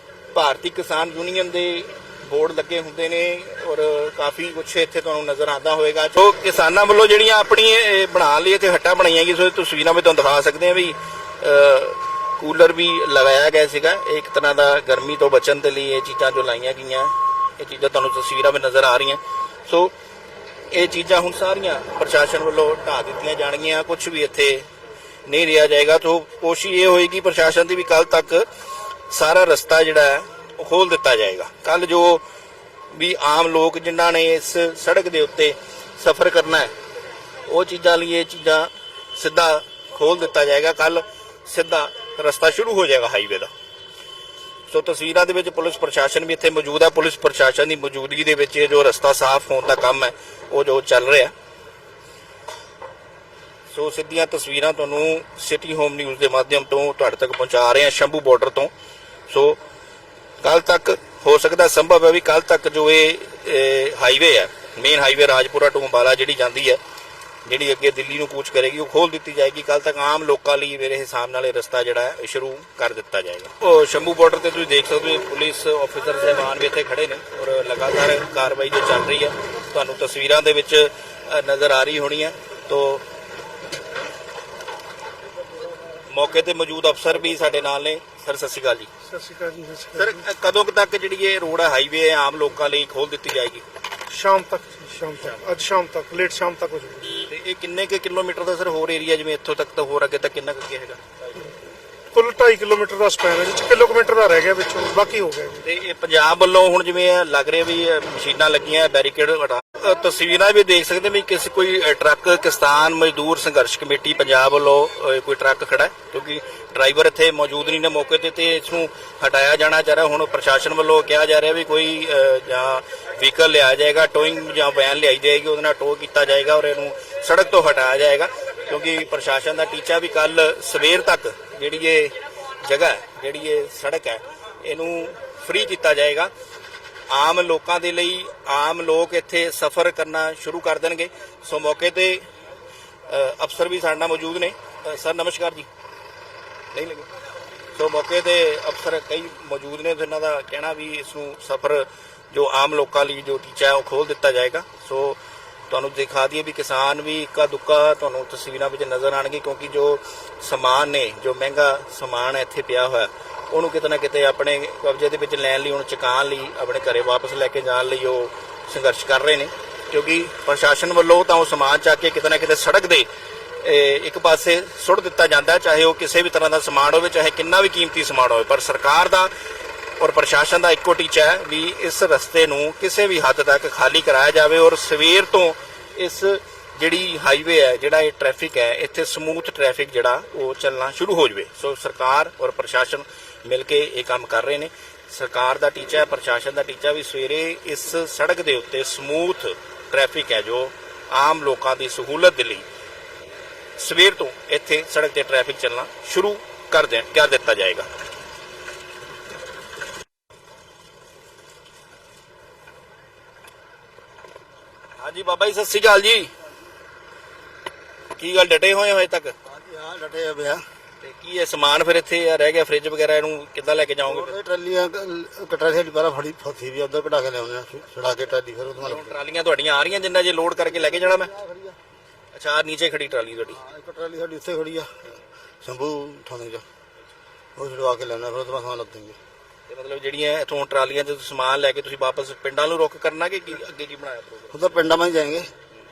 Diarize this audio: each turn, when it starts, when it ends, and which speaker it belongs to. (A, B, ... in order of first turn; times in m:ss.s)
0:00.3-0:19.9 A
0:20.7-0:24.7 A
0:25.3-0:28.5 A
0:29.1-0:32.2 A
0:32.9-0:36.7 A
0:37.5-0:43.5 A
0:44.7-0:51.3 A
0:53.7-0:58.7 A
0:59.3-0:59.6 A
1:00.4-1:06.8 A
1:07.4-1:23.0 A
1:26.1-1:28.9 A
1:29.1-1:30.2 B
1:30.0-1:33.6 A
1:34.1-1:37.2 B
1:37.2-1:41.0 A
1:42.1-1:45.6 B
1:45.6-2:16.3 A
2:17.1-2:22.3 A
2:23.1-2:25.7 A
2:26.7-2:27.1 A
2:27.8-2:53.1 A
2:53.6-2:59.3 A
3:00.0-3:22.7 A
3:23.8-3:27.9 A
3:35.0-3:36.3 A
3:38.2-3:39.4 A
3:39.5-3:40.6 C
3:41.0-3:44.4 A
3:44.0-3:49.2 C
3:48.8-3:51.3 A
3:50.9-3:51.8 C
3:52.3-3:53.6 A
3:53.6-3:56.6 C
3:57.6-3:59.2 C
3:59.7-4:04.9 A
4:04.5-4:05.5 C